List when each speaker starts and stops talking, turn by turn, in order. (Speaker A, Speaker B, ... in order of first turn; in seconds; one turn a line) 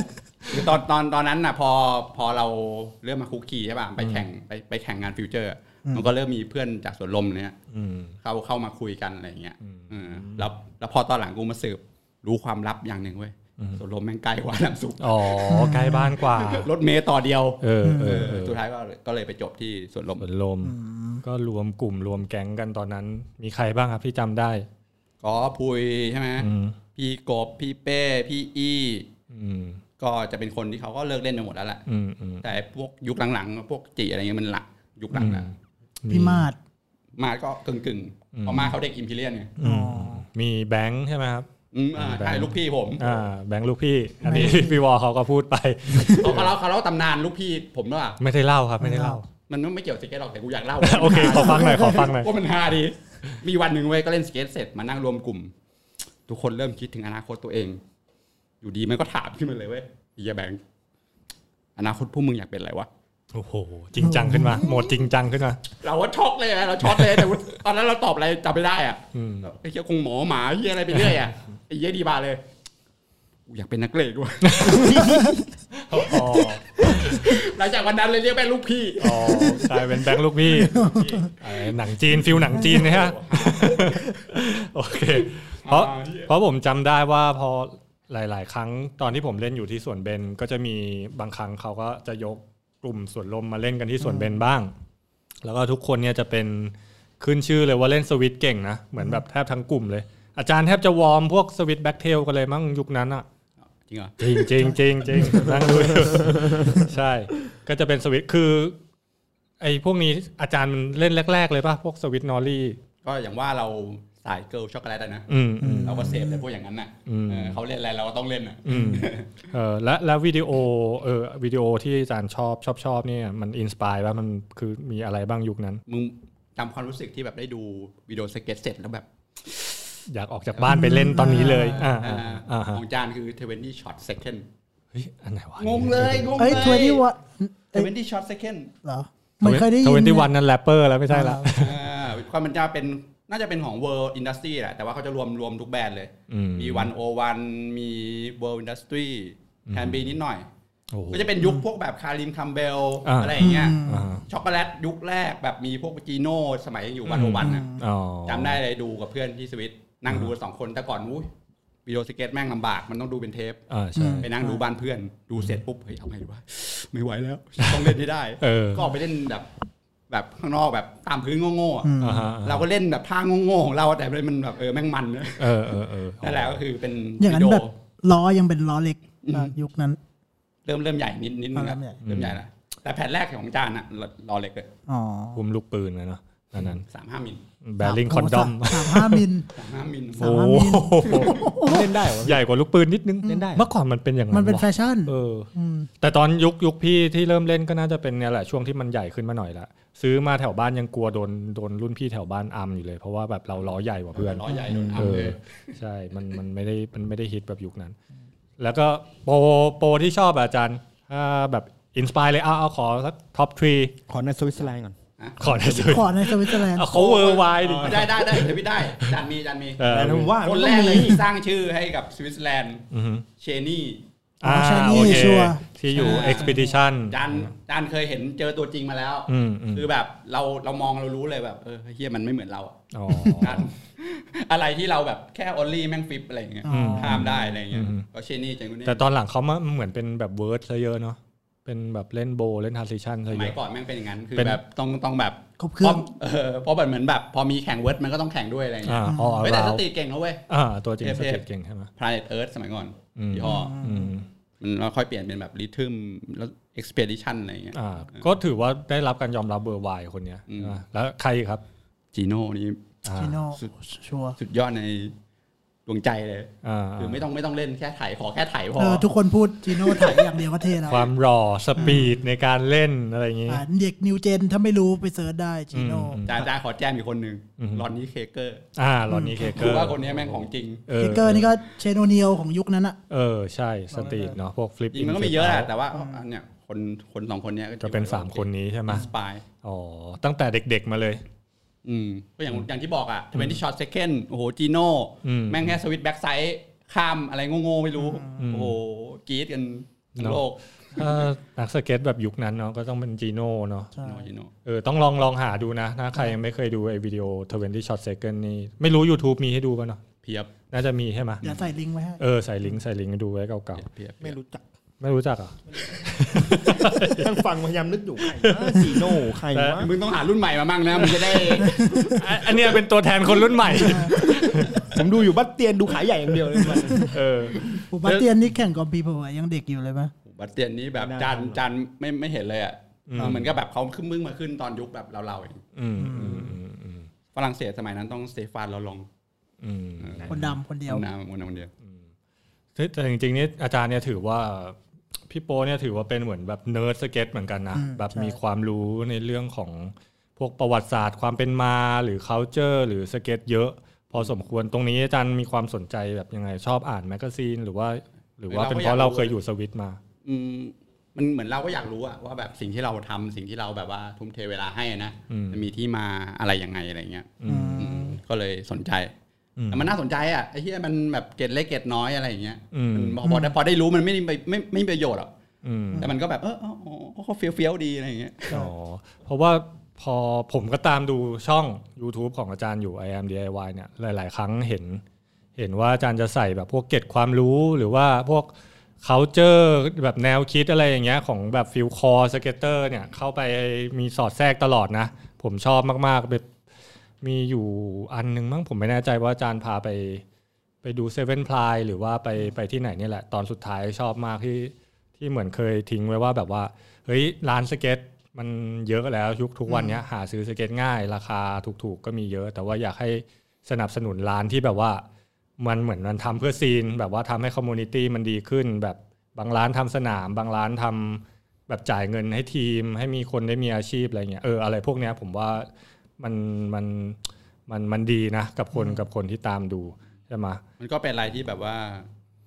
Speaker A: 0.5-7.5
Speaker B: 4.0-4.2
Speaker B: 7.7-8.1
Speaker A: 8.2-15.7
Speaker B: 9.6-10.5
Speaker B: 15.0-16.7
Speaker C: 15.5-16.1
Speaker A: 16.2-20.2
Speaker B: 17.6-18.6
Speaker C: 17.8-18.4
Speaker B: 20.2-24.6
Speaker C: 20.6-21.2
Speaker A: 25.2-29.1
Speaker B: 26.4-26.8
Speaker B: 29.3-29.8
Speaker A: 30.0-31.8
Speaker B: 31.9-32.4
Speaker A: 32.4-35.5
Speaker B: 35.1-35.5
Speaker B: 36.0-36.5
Speaker C: 36.1-36.6
Speaker A: 37.2-39.5
Speaker B: 38.3-38.7
Speaker B: 39.6-46.5
Speaker C: 39.6-40.2
Speaker A: 41.7-43.2
Speaker C: 44.2-44.7
Speaker A: 46.1-48.2
Speaker B: 48.2-49.2
Speaker C: 48.8-49.2
Speaker A: 49.5-55.5
Speaker B: 50.8-52.3
Speaker C: 51.0-52.1
Speaker A: 56.3-57.8
Speaker A: 58.6-60.6
Speaker A: 61.8-62.9
Speaker B: 63.3-65.6
Speaker C: 64.0-64.7
Speaker A: 65.8-72.4
Speaker B: 66.9-67.2
Speaker B: 69.1-69.5
Speaker A: 73.5-74.9
Speaker B: 74.4-75.0
Speaker D: 74.6-75.4
Speaker C: 75.0-75.3
Speaker B: 75.8-77.3
Speaker A: 76.8-79.6
Speaker B: 79.0-94.7
Speaker C: 80.6-81.2
Speaker A: 80.7-81.3
Speaker A: 82.5-84.1
Speaker A: 85.2-86.3
Speaker C: 94.0-94.4
Speaker B: 95.4-103.2
Speaker A: 103.8-104.2
Speaker B: 104.2-108.8
Speaker D: 106.1-106.6
Speaker B: 109.6-112.8
Speaker A: 113.0-115.3
Speaker B: 115.3-116.2
Speaker C: 115.6-116.4
Speaker A: 115.8-119.5
Speaker B: 117.0-117.6
Speaker B: 118.7-125.8
Speaker C: 118.7-119.0
Speaker A: 125.9-129.8
Speaker B: 130.1-132.8
Speaker C: 130.7-131.9
Speaker A: 131.8-134.4
Speaker B: 134.9-136.9
Speaker A: 135.6-137.1
Speaker C: 136.4-137.9
Speaker A: 137.7-138.7
Speaker C: 138.8-140.3
Speaker B: 139.4-141.8
Speaker C: 141.1-141.4
Speaker A: 141.5-150.5
Speaker B: 146.3-146.9
Speaker B: 149.7-150.1
Speaker B: 150.9-151.3
Speaker A: 151.1-157.7
Speaker B: 153.0-154.2
Speaker C: 153.4-154.1
Speaker B: 157.1-158.6
Speaker C: 157.4-157.8
Speaker A: 158.2-161.3
Speaker A: 161.8-163.6
Speaker B: 163.7-164.3
Speaker C: 163.9-164.6
Speaker A: 164.2-169.5
Speaker B: 167.6-168.9
Speaker A: 170.1-171.9
Speaker C: 171.8-172.3
Speaker B: 172.0-172.7
Speaker A: 172.4-177.7
Speaker B: 175.4-176.6
Speaker C: 177.2-180.0
Speaker A: 179.2-179.5
Speaker A: 180.7-184.7
Speaker C: 181.5-182.0
Speaker B: 182.0-182.4
Speaker C: 184.9-185.4
Speaker B: 185.3-186.8
Speaker A: 186.6-187.4
Speaker B: 187.6-189.2
Speaker C: 187.8-189.5
Speaker A: 189.5-190.4
Speaker C: 190.2-191.9
Speaker B: 190.2-207.9
Speaker D: 191.6-192.4
Speaker C: 193.2-193.5
Speaker D: 193.2-193.7
Speaker C: 194.3-195.9
Speaker A: 204.1-205.8
Speaker D: 204.7-205.2
Speaker B: 208.6-213.9
Speaker D: 214.1-214.9
Speaker A: 215.2-215.8
Speaker B: 215.4-219.1
Speaker C: 215.6-217.1
Speaker A: 216.9-219.8
Speaker B: 219.8-220.3
Speaker D: 219.8-221.2
Speaker A: 220.4-222.8
Speaker B: 222.9-223.2
Speaker A: 223.4-224.0
Speaker B: 224.4-227.5
Speaker C: 224.4-226.8
Speaker A: 224.8-225.3
Speaker A: 225.9-226.6
Speaker A: 227.1-232.8
Speaker B: 229.3-229.9
Speaker B: 232.9-233.7
Speaker C: 233.1-233.4
Speaker A: 233.4-239.0
Speaker C: 236.6-237.3
Speaker B: 236.7-238.1
Speaker B: 238.8-243.6
Speaker A: 243.3-250.4
Speaker C: 245.6-246.0
Speaker B: 248.8-249.8
Speaker C: 249.0-249.5
Speaker B: 250.5-251.9
Speaker A: 251.0-251.4
Speaker A: 252.0-253.8
Speaker B: 253.2-254.2
Speaker C: 253.4-254.1
Speaker A: 254.6-258.2
Speaker B: 257.7-261.6
Speaker A: 260.5-260.8
Speaker A: 262.1-262.8
Speaker B: 263.0-263.4
Speaker C: 263.2-264.4
Speaker A: 264.4-265.1
Speaker A: 265.9-269.1
Speaker B: 266.6-267.2
Speaker C: 268.8-271.1
Speaker A: 269.7-270.4
Speaker B: 270.9-273.6
Speaker C: 271.8-272.1
Speaker C: 273.5-276.2
Speaker B: 275.7-276.4
Speaker A: 276.2-278.6
Speaker B: 277.6-277.9
Speaker B: 278.8-281.5
Speaker C: 279.1-279.6
Speaker A: 279.4-280.8
Speaker C: 281.0-283.0
Speaker B: 283.1-285.7
Speaker C: 283.9-284.4
Speaker A: 284.9-289.4
Speaker C: 285.9-286.2
Speaker B: 287.8-289.1
Speaker B: 289.6-291.2
Speaker A: 291.8-301.2
Speaker B: 295.2-295.8
Speaker C: 298.0-298.4
Speaker B: 298.4-298.8
Speaker B: 300.2-300.4
Speaker B: 300.9-303.9
Speaker C: 303.9-304.2
Speaker A: 304.0-304.5
Speaker B: 304.6-310.0
Speaker A: 310.2-310.5
Speaker B: 310.7-311.5
Speaker C: 311.4-312.2
Speaker B: 312.2-313.8
Speaker A: 313.8-314.4
Speaker D: 314.2-314.6
Speaker B: 315.0-317.3
Speaker D: 316.6-319.9
Speaker B: 318.3-319.9
Speaker A: 319.8-322.2
Speaker B: 321.0-324.8
Speaker C: 321.6-322.1
Speaker C: 323.6-324.2
Speaker D: 324.2-327.2
Speaker C: 326.8-327.1
Speaker B: 327.1-328.3
Speaker C: 327.9-330.1
Speaker A: 330.2-335.6
Speaker D: 331.0-331.6
Speaker B: 333.1-333.5
Speaker B: 335.8-337.1
Speaker C: 336.0-336.6
Speaker A: 337.3-339.1
Speaker B: 339.6-340.6
Speaker A: 340.0-340.3
Speaker C: 340.3-341.0
Speaker A: 340.9-341.7
Speaker B: 342.8-344.8
Speaker B: 345.3-360.0
Speaker C: 347.7-348.4
Speaker A: 358.5-359.3
Speaker A: 360.2-369.1
Speaker B: 365.3-365.6
Speaker B: 367.4-368.1
Speaker C: 367.5-368.1
Speaker B: 369.6-369.9
Speaker A: 369.7-375.3
Speaker B: 372.7-373.2
Speaker C: 373.2-373.5
Speaker B: 375.6-376.1
Speaker A: 376.0-378.6
Speaker B: 378.5-385.0
Speaker B: 385.6-388.5
Speaker B: 389.0-396.5
Speaker B: 397.2-400.2
Speaker B: 400.8-415.0
Speaker C: 409.7-410.0
Speaker B: 415.6-425.7
Speaker B: 426.2-430.6
Speaker C: 428.7-429.0
Speaker A: 430.8-432.1